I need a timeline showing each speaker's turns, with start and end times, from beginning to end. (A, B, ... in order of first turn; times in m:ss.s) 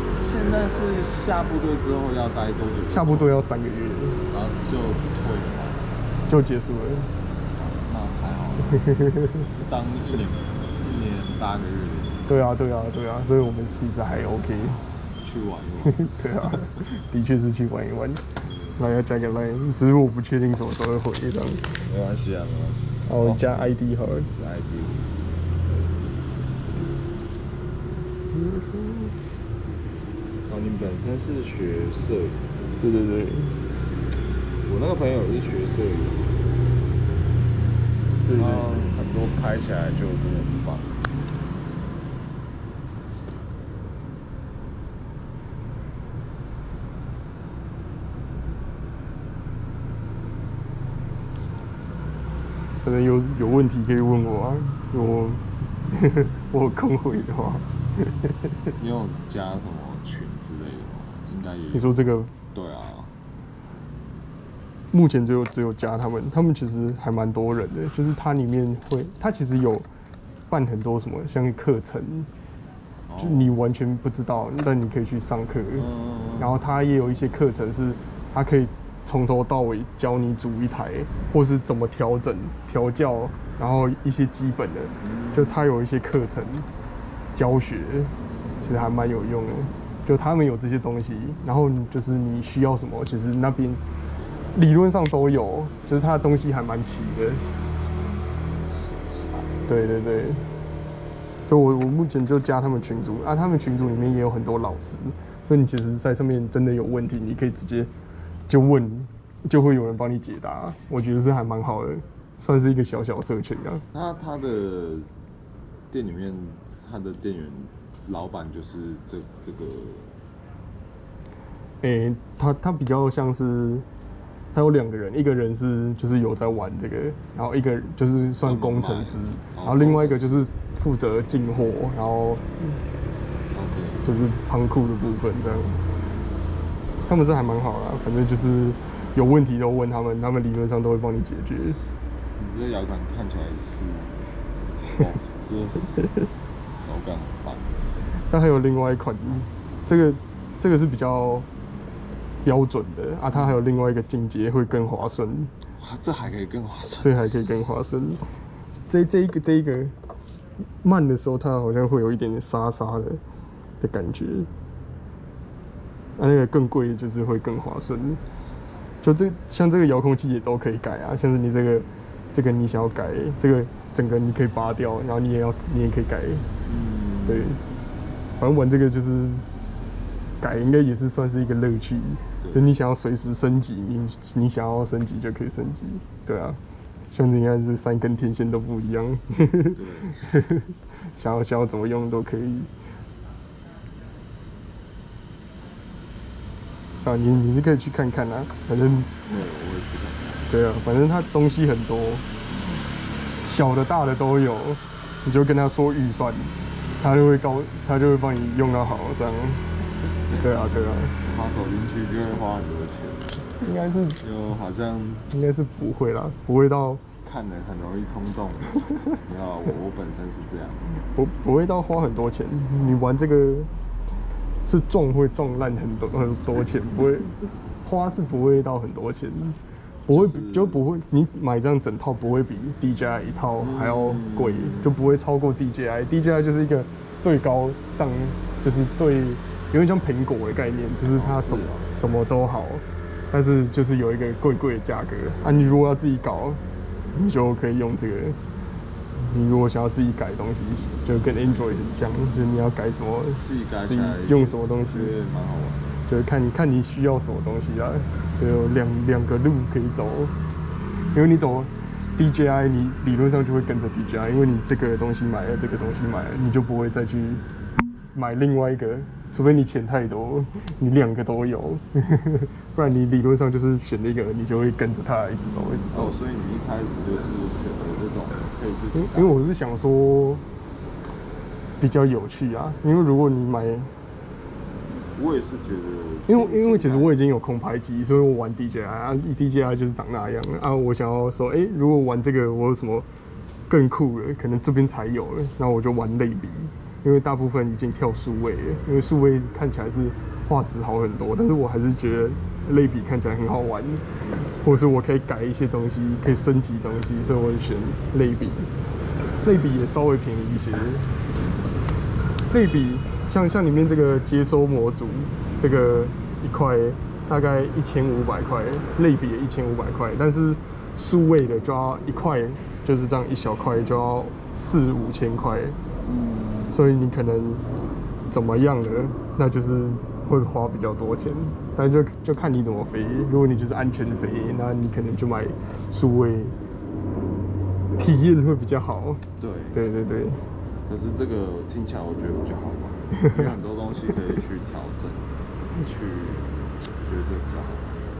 0:00.2-0:03.4 A
0:02.9-0:04.2 B
0:04.3-0:05.9 A
0:06.3-0:07.1 B
0:07.6-0:12.4 A
0:09.0-0:09.3 B
0:12.3-0:14.8 B
0:15.1-0:16.7 A
0:15.8-0:18.2 B
0:18.4-0:18.8 A
0:18.8-0:21.7 B
0:21.8-0:23.7 A
0:23.1-0:24.3 B
0:24.3-0:25.1 A
0:28.3-0:29.2 B
0:30.5-0:32.5 A
0:32.8-0:33.6 B
0:34.6-0:36.3 A
0:38.2-0:38.9 B
0:38.3-0:41.0 A
0:52.8-0:58.3 B
0:58.8-1:03.1 A
1:01.7-1:02.3 B
1:04.9-1:09.9 B
1:10.5-1:12.3 B
1:13.1-1:13.6 A
1:13.2-1:15.9 B
1:15.8-1:16.5 A
1:16.4-1:26.7 B
1:25.0-1:25.6 A
1:27.3-1:33.8 B
1:34.5-1:37.4 B
1:39.6-1:40.4 B
1:41.5-1:47.9 B
1:48.5-1:53.8 B
1:53.9-1:55.1 A
1:55.9-2:00.1 A
2:01.8-2:03.8 B
2:04.5-2:12.8 B
2:08.4-2:10.4 A
2:13.5-2:14.0 A
2:14.0-2:15.8 B
2:17.1-2:21.8 B
2:22.4-2:24.3 A
2:24.9-2:26.1 A
2:26.7-2:27.7 A
2:28.3-2:31.5 B
2:32.4-2:35.5 B
2:33.3-2:33.6 A
2:35.8-2:37.2 A
2:37.0-2:38.2 B
2:38.9-2:39.9 B
2:40.8-2:43.2 B
2:43.8-2:44.5 B
2:46.2-2:48.2 B
2:49.0-2:56.5 B
2:56.6-2:57.6 A
2:57.3-2:57.6 B
2:58.4-2:59.4 B
3:00.4-3:06.6 B
3:02.4-3:02.7 A
3:07.1-3:12.7 B
3:09.7-3:10.2 A
3:17.0-3:19.2 B
3:19.2-3:20.5 A
3:20.5-3:22.2 B
3:23.4-3:29.6 B
3:30.3-3:31.2 B
3:31.2-3:33.5 A
3:33.6-3:34.2 B
3:34.2-3:35.3 A
3:35.3-3:37.0 B
3:37.2-3:41.0 A
3:41.1-3:43.7 B
3:44.6-3:49.6 B
3:50.1-4:06.6 B
3:50.1-3:50.8 A
3:53.6-3:55.0 A
4:01.0-4:01.9 A
4:07.1-4:08.4 B
4:09.2-4:15.1 B
4:13.4-4:16.0 A
4:16.1-4:20.3 B
4:21.1-4:27.4 B
4:28.1-4:36.2 B
4:35.9-4:39.4 A
4:38.9-4:40.4 B
4:41.8-4:43.9 B
4:45.1-4:47.2 A
4:46.3-4:53.1 B
4:53.7-5:04.0 B
5:04.6-5:08.7 B
5:09.4-5:11.1 B
5:12.5-5:25.8 B
5:26.0-5:26.8 A
5:26.7-5:27.6 B
5:28.3-5:36.6 B
5:38.0-5:40.4 B
5:39.4-5:39.8 A
5:40.9-5:48.0 A